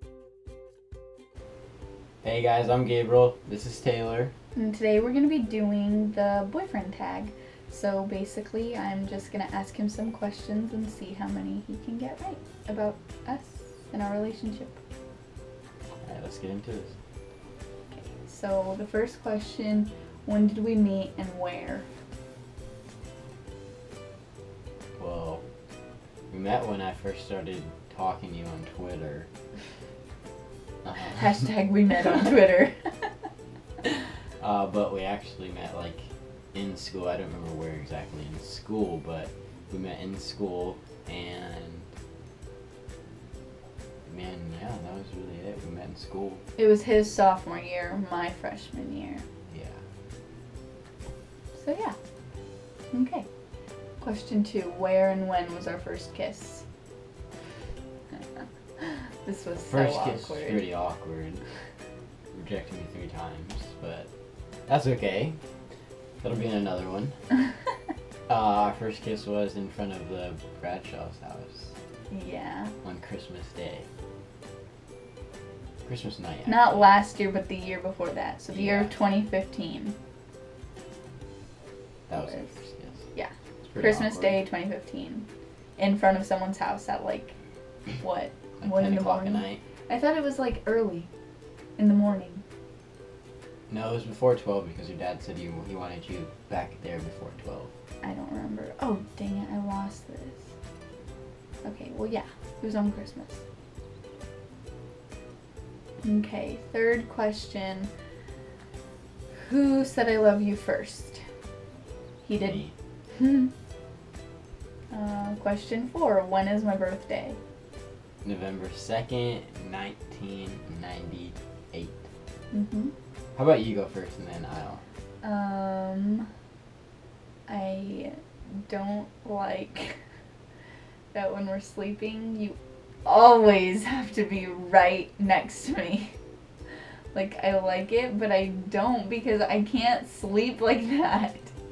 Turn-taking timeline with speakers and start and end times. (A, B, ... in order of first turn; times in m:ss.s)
0:02.2-0:04.3 A
0:04.6-0:14.8 B
0:16.0-0:17.0 A
0:17.9-0:21.9 B
0:25.0-0:25.4 A
0:26.3-0:29.3 A
0:30.8-0:31.4 A
0:31.0-0:33.1 B
0:34.4-0:41.9 A
0:44.0-0:46.4 A
0:46.6-0:49.2 B
0:49.5-0:49.8 A
0:51.5-0:52.0 B
0:52.9-0:53.3 B
0:54.0-0:56.6 B
0:58.2-1:00.6 B
0:59.6-1:01.4 A
1:02.3-1:04.1 A
1:04.7-1:05.4 A
1:06.2-1:07.2 A
1:08.3-1:11.7 A
1:12.1-1:12.7 B
1:12.8-1:13.9 A
1:15.8-1:16.9 A
1:16.5-1:20.0 B
1:18.5-1:18.9 A
1:22.1-1:23.0 A
1:22.2-1:22.5 B
1:23.1-1:25.3 B
1:23.6-1:24.4 A
1:25.8-1:27.4 B
1:28.0-1:31.1 B
1:28.6-1:29.6 A
1:31.8-1:32.4 B
1:33.7-1:37.7 A
1:38.0-1:40.5 B
1:41.6-1:43.4 B
1:46.0-1:47.9 B
1:49.4-1:51.2 B
1:52.2-1:53.5 B
1:52.4-1:52.7 A
1:54.9-1:57.4 B
1:58.2-2:02.0 A
2:02.5-2:02.9 B
2:03.4-2:04.8 A
2:05.2-2:06.3 B
2:07.5-2:10.0 B
2:11.1-2:16.1 B
2:17.1-2:21.5 B